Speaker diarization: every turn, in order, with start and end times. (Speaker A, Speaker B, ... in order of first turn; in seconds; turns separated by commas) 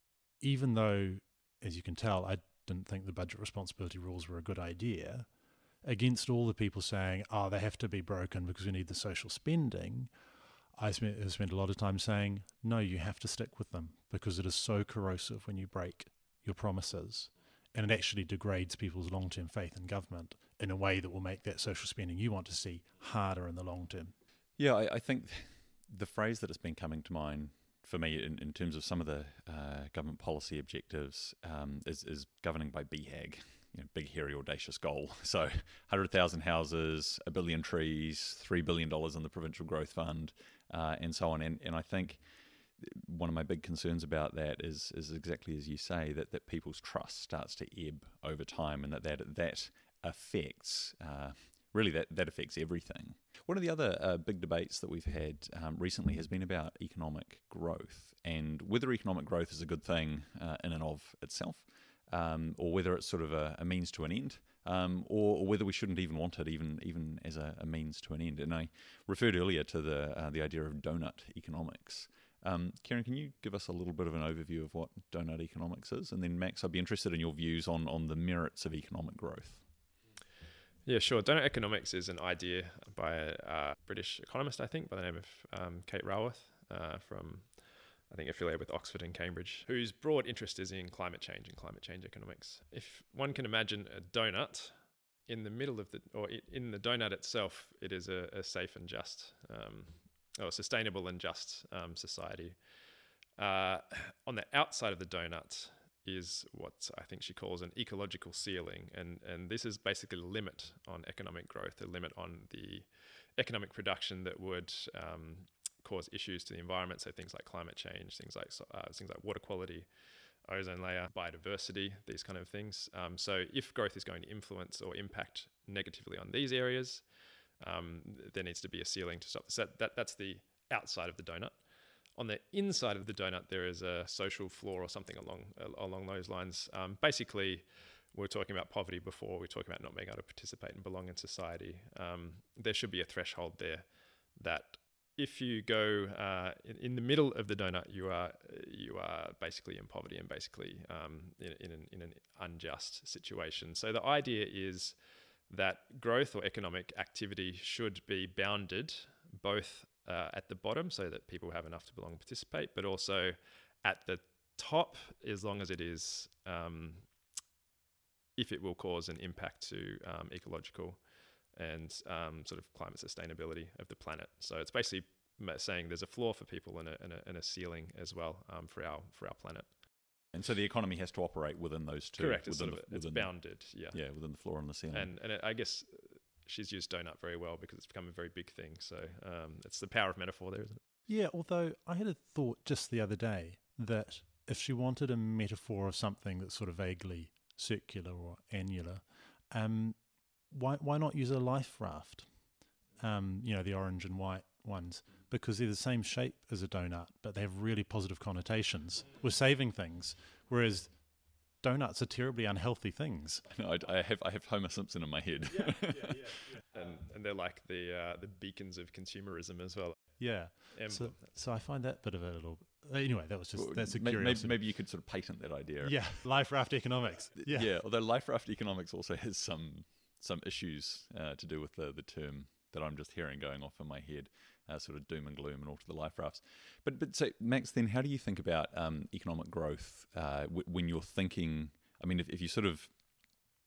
Speaker A: 0.4-5.3, Speaker A: 5.8-10.1, Speaker A: 10.8-24.1, Speaker B: 24.6-42.2, Speaker B: 42.8-79.6, Speaker C: 80.8-94.8, Speaker C: 95.3-102.6, Speaker C: 103.4-119.9, Speaker C: 120.5-127.1, Speaker C: 127.6-131.6, Speaker C: 132.2-155.0, Speaker C: 155.5-167.1, Speaker C: 168.4-171.0, Speaker C: 171.5-179.7, Speaker B: 180.3-183.3, Speaker C: 182.2-184.0, Speaker B: 183.9-185.1, Speaker C: 184.9-190.8, Speaker A: 191.1-200.0, Speaker A: 200.5-202.3, Speaker A: 203.0-210.9, Speaker A: 211.6-213.4, Speaker B: 213.5-216.4, Speaker C: 216.7-220.0, Speaker A: 220.2-224.6, Speaker C: 220.7-221.2, Speaker B: 223.6-226.0, Speaker A: 225.8-227.7, Speaker B: 227.4-242.9